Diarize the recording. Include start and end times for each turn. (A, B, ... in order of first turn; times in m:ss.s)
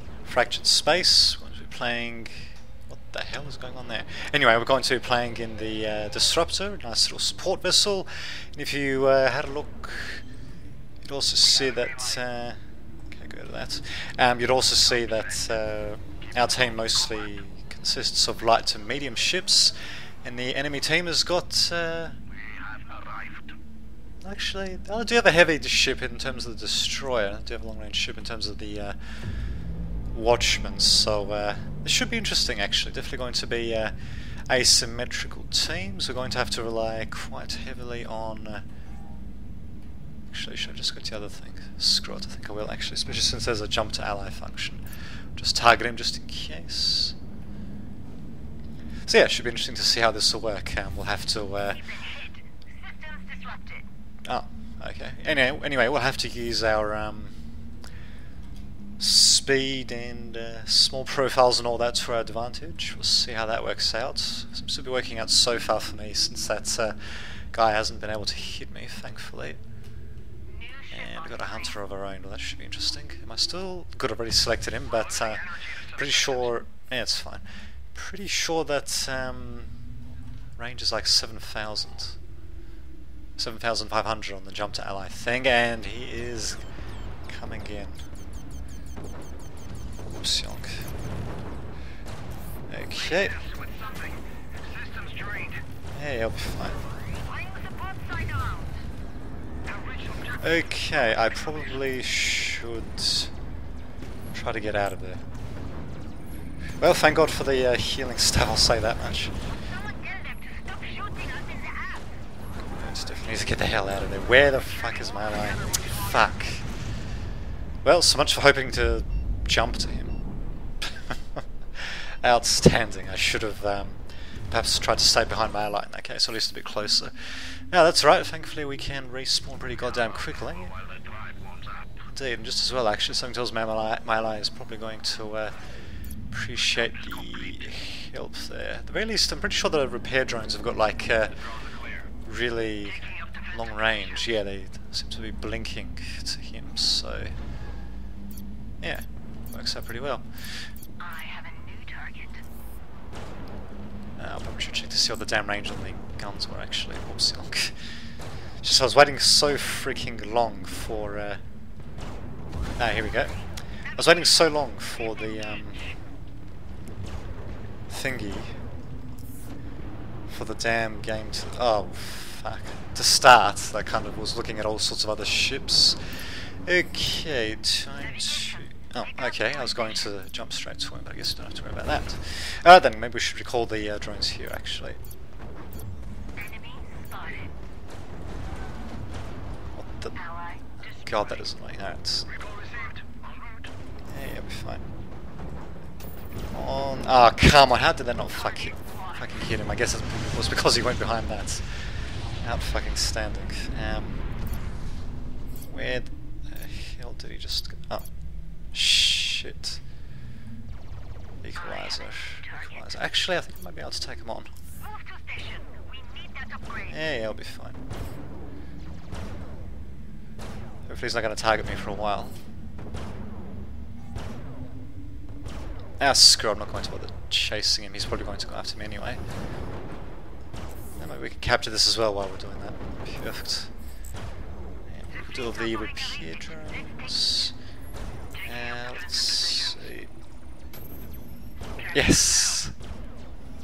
0:00.2-0:10.2 A
0:11.0-0:22.2 A
0:23.0-0:23.3 B
0:24.2-0:29.1 A
0:30.1-0:33.9 A
0:34.5-0:38.6 A
0:40.3-0:44.8 A
0:45.4-0:47.2 A
0:49.0-0:51.9 A
0:52.8-0:53.8 B
0:54.2-0:57.4 A
0:59.0-1:09.6 A
1:10.9-1:19.7 A
1:20.6-1:22.2 A
1:23.4-1:26.6 A
1:27.3-1:28.0 A
1:30.1-1:30.9 A
1:32.7-1:33.4 A
1:33.4-1:34.1 B
1:34.7-1:35.6 B
1:35.9-1:36.8 A
1:37.3-1:38.6 B
1:40.4-1:43.3 A
1:44.3-1:45.2 A
1:46.8-1:49.4 A
1:49.9-1:51.9 B
1:52.7-1:56.7 A
1:57.8-2:00.2 A
2:00.8-2:10.8 A
2:12.0-2:15.5 A
2:16.3-2:21.4 A
2:22.2-2:27.4 A
2:28.8-2:30.7 A
2:31.0-2:32.4 B
2:34.2-2:37.8 A
2:38.6-2:41.4 A
2:42.8-2:43.4 A
2:43.9-2:45.9 A
2:47.9-2:48.6 A
2:50.3-3:05.0 A
3:06.4-3:07.4 B
3:09.7-3:10.2 A
3:10.8-3:12.3 A
3:12.4-3:13.0 B
3:14.1-3:14.8 A
3:16.5-3:24.2 A
3:25.6-3:28.1 A
3:28.7-3:29.8 A
3:31.4-3:34.5 A
3:35.3-3:35.6 B
3:36.9-3:37.8 A
3:40.8-3:42.4 A
3:46.0-3:49.2 A
3:51.0-3:53.7 A
3:54.9-3:57.6 A
3:58.4-4:00.1 A
4:01.9-4:02.7 A